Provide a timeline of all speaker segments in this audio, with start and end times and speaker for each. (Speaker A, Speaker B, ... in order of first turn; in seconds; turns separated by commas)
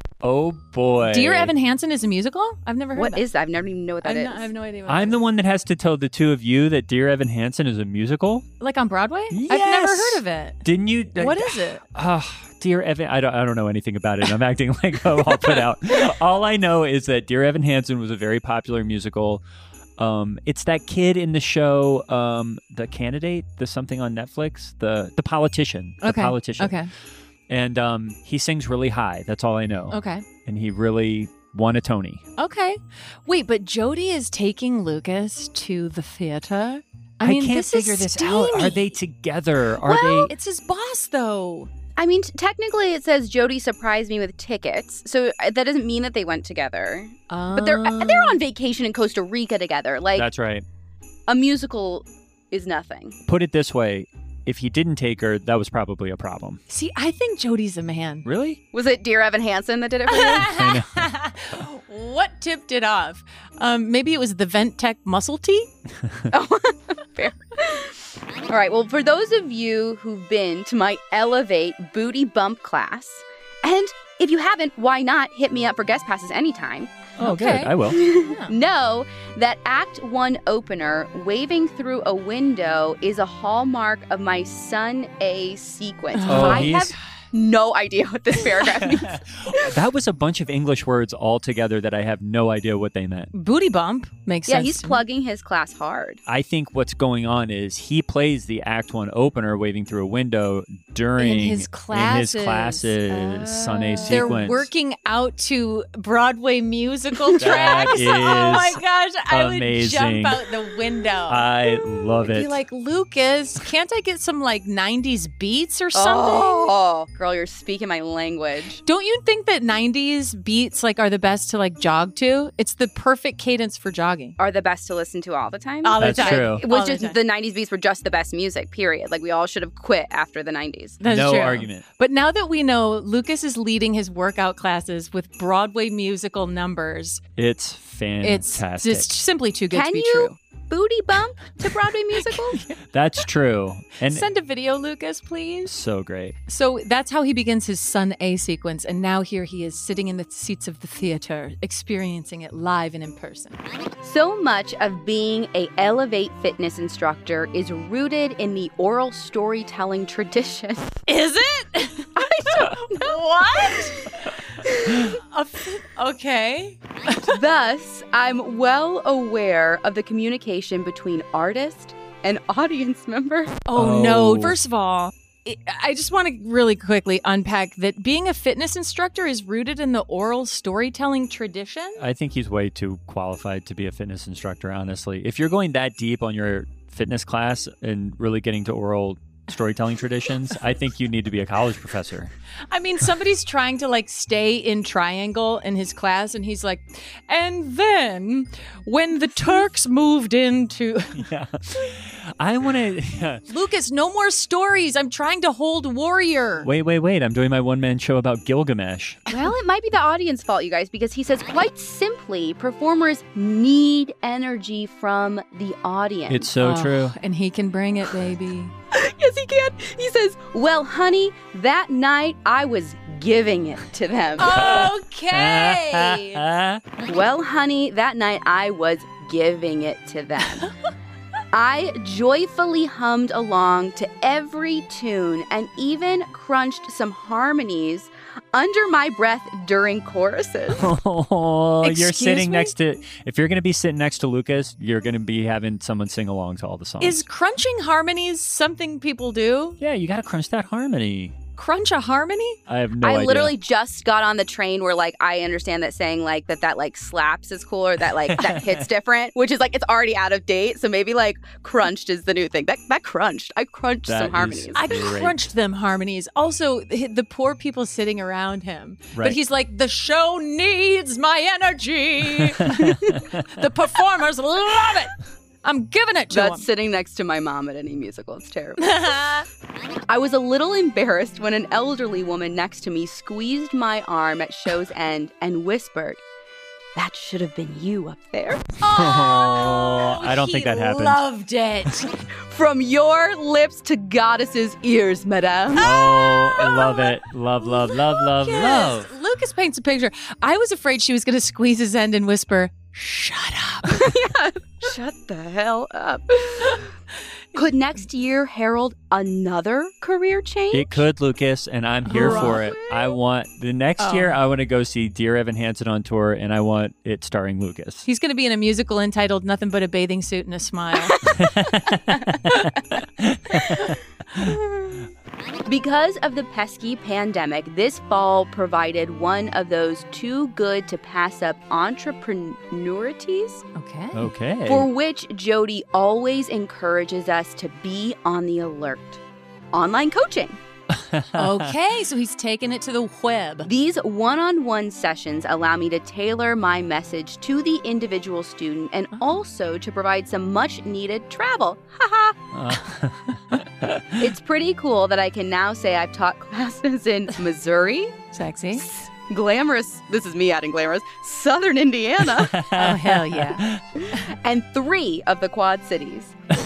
Speaker A: 0.2-1.5, Speaker B: 1.0-3.2, Speaker C: 3.0-4.5, Speaker B: 4.0-5.2, Speaker A: 4.9-8.5, Speaker B: 8.6-10.6, Speaker A: 9.3-19.4, Speaker B: 11.2-11.8, Speaker A: 20.0-26.8, Speaker B: 26.0-26.9, Speaker A: 27.5-32.2, Speaker B: 29.9-30.3, Speaker B: 32.4-38.9, Speaker A: 37.2-40.3, Speaker B: 39.8-41.7, Speaker C: 42.0-50.3, Speaker B: 47.3-48.4, Speaker A: 50.2-50.6, Speaker C: 51.3-53.2, Speaker A: 53.3-56.6, Speaker B: 56.7-58.3, Speaker A: 58.2-58.6, Speaker C: 58.7-60.6, Speaker B: 60.1-65.7, Speaker A: 60.2-60.9, Speaker C: 66.3-77.0, Speaker A: 77.2-78.0, Speaker B: 77.2-78.5, Speaker C: 77.5-89.7, Speaker B: 86.1-86.9, Speaker A: 86.3-87.0, Speaker A: 88.9-93.3, Speaker B: 93.3-95.0, Speaker C: 94.5-96.2, Speaker A: 96.3-104.7, Speaker B: 101.2-116.7, Speaker C: 103.8-104.2, Speaker C: 107.3-108.0, Speaker A: 107.4-110.4, Speaker A: 111.3-112.6, Speaker C: 115.9-118.8, Speaker B: 118.8-124.4, Speaker C: 124.4-131.0, Speaker B: 125.8-127.2, Speaker A: 126.0-126.6, Speaker B: 131.0-137.2, Speaker A: 131.0-131.8, Speaker A: 137.4-139.1, Speaker B: 138.2-140.3, Speaker C: 139.7-142.6, Speaker B: 142.2-142.8, Speaker A: 142.8-144.3, Speaker B: 144.1-145.7, Speaker A: 145.7-146.4, Speaker B: 146.5-153.6, Speaker C: 154.0-161.0, Speaker B: 161.1-162.1, Speaker C: 162.2-165.0, Speaker B: 162.7-164.1, Speaker B: 164.9-167.3, Speaker C: 167.3-173.6, Speaker B: 173.7-182.0, Speaker A: 173.8-174.6, Speaker A: 182.0-192.3, Speaker B: 192.7-201.2, Speaker A: 201.2-203.4, Speaker B: 203.5-206.7, Speaker A: 206.6-209.3, Speaker C: 209.3-216.5, Speaker A: 216.3-217.2, Speaker B: 216.6-218.7, Speaker C: 218.9-224.8, Speaker B: 224.4-226.4, Speaker A: 224.6-227.0, Speaker C: 227.1-230.7, Speaker C: 231.5-240.9, Speaker A: 240.7-247.2, Speaker B: 241.8-242.7, Speaker B: 247.0-249.8, Speaker A: 249.8-251.3, Speaker B: 251.6-252.6, Speaker A: 252.7-253.5, Speaker C: 253.0-264.8, Speaker A: 258.3-258.9, Speaker A: 264.1-265.5, Speaker B: 264.7-276.7, Speaker A: 269.1-269.4, Speaker A: 272.7-273.2, Speaker C: 276.3-279.2, Speaker B: 278.8-279.5, Speaker C: 280.1-286.2, Speaker C: 286.9-288.7, Speaker B: 288.8-292.1, Speaker A: 288.9-291.2, Speaker C: 292.5-295.9, Speaker A: 295.8-299.1, Speaker B: 295.8-304.2, Speaker C: 303.9-306.9, Speaker C: 307.6-311.0, Speaker A: 310.7-318.1, Speaker B: 312.1-312.7, Speaker C: 312.1-313.0, Speaker B: 314.0-314.4, Speaker B: 318.1-321.4, Speaker A: 321.2-324.5, Speaker C: 324.4-324.8, Speaker C: 325.7-333.6, Speaker B: 333.8-334.3, Speaker A: 334.1-334.9, Speaker C: 334.7-339.2, Speaker C: 339.7-340.6, Speaker A: 340.9-341.7, Speaker B: 341.4-343.7, Speaker C: 343.7-352.4, Speaker A: 352.5-354.3, Speaker C: 354.2-358.2, Speaker B: 358.3-358.9, Speaker C: 358.8-362.7, Speaker A: 362.2-364.1, Speaker B: 362.8-363.6, Speaker C: 364.0-366.4